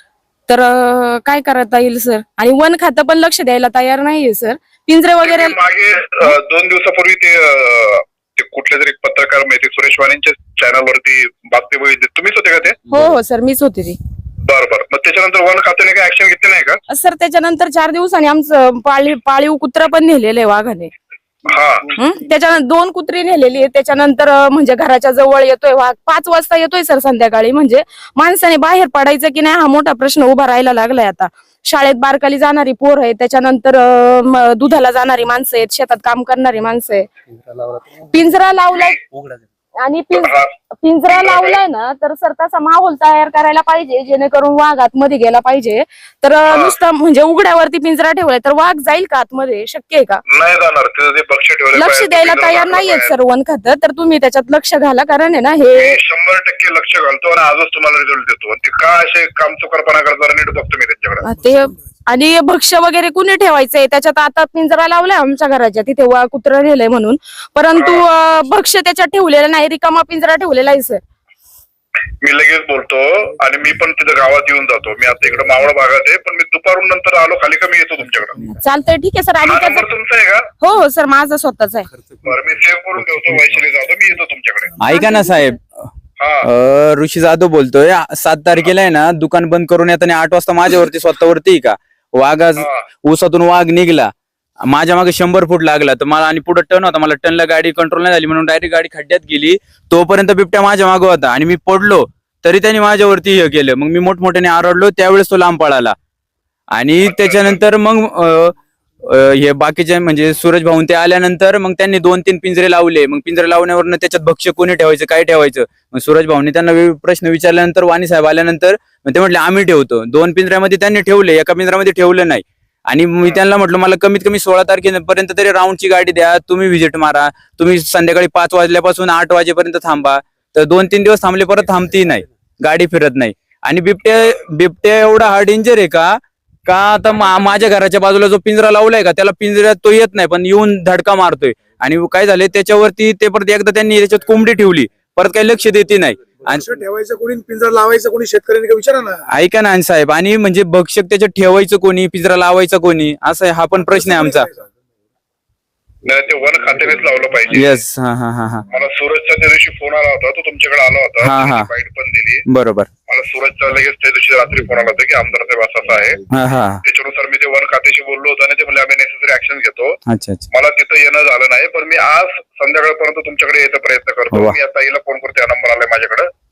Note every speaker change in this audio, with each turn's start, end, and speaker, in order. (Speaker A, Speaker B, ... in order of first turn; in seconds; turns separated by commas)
Speaker A: 0.5-5.6, Speaker B: 5.2-12.8, Speaker A: 12.9-14.0, Speaker B: 14.5-16.8, Speaker A: 16.9-20.9, Speaker B: 21.5-21.9, Speaker A: 22.0-37.1, Speaker A: 38.1-39.0, Speaker A: 39.8-50.2, Speaker B: 40.1-40.5, Speaker B: 41.1-41.6, Speaker B: 50.3-53.2, Speaker A: 51.7-56.0, Speaker B: 55.8-61.2, Speaker A: 61.2-71.0, Speaker C: 61.4-61.8, Speaker B: 67.8-68.0, Speaker B: 72.2-78.4, Speaker A: 78.6-79.9, Speaker B: 79.5-80.5, Speaker A: 80.6-81.9, Speaker B: 82.2-84.7, Speaker D: 84.8-85.8, Speaker A: 84.9-85.5, Speaker B: 86.2-86.5, Speaker D: 86.4-94.1, Speaker D: 94.7-106.0, Speaker D: 106.7-108.6, Speaker B: 107.0-107.6, Speaker D: 109.1-146.7, Speaker C: 146.5-149.3, Speaker D: 149.3-154.5, Speaker C: 153.9-154.5, Speaker B: 156.1-157.8, Speaker D: 157.5-158.6, Speaker B: 158.7-162.4, Speaker D: 161.2-161.7, Speaker D: 162.5-162.9, Speaker B: 163.1-166.2, Speaker D: 166.3-166.8, Speaker B: 166.8-170.0, Speaker D: 170.1-170.5, Speaker B: 170.5-176.3